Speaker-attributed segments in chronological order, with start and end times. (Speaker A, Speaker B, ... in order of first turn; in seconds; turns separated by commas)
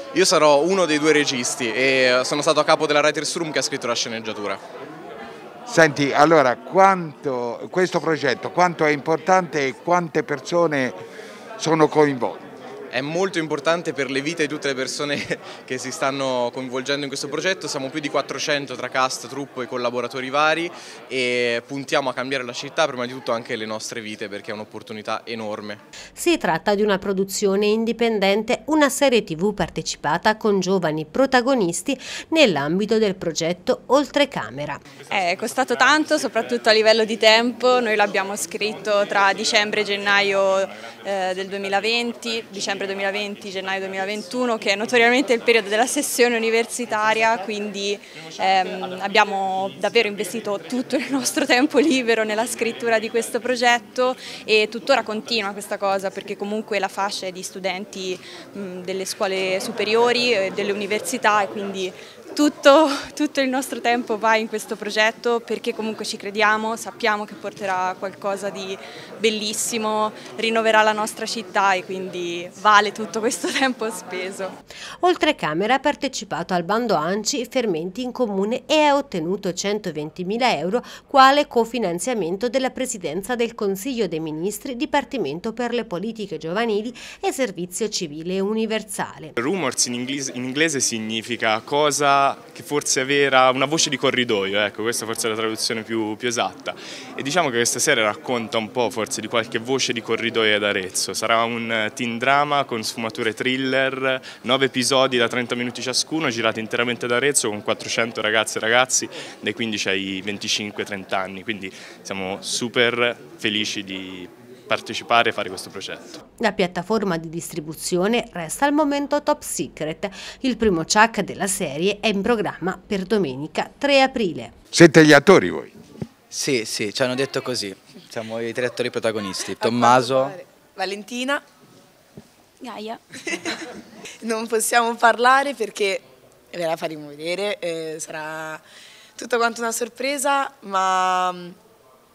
Speaker A: 0.1-4.6, Speaker B: 5.7-11.0, Speaker B: 11.6-12.4, Speaker A: 12.9-25.8, Speaker C: 26.2-34.8, Speaker D: 35.1-74.5, Speaker C: 75.0-89.3, Speaker E: 89.4-116.2, Speaker C: 116.4-124.5, Speaker B: 124.7-125.7, Speaker F: 126.3-130.4, Speaker G: 129.9-131.4, Speaker G: 133.2-133.6, Speaker G: 134.2-138.6, Speaker G: 139.2-141.6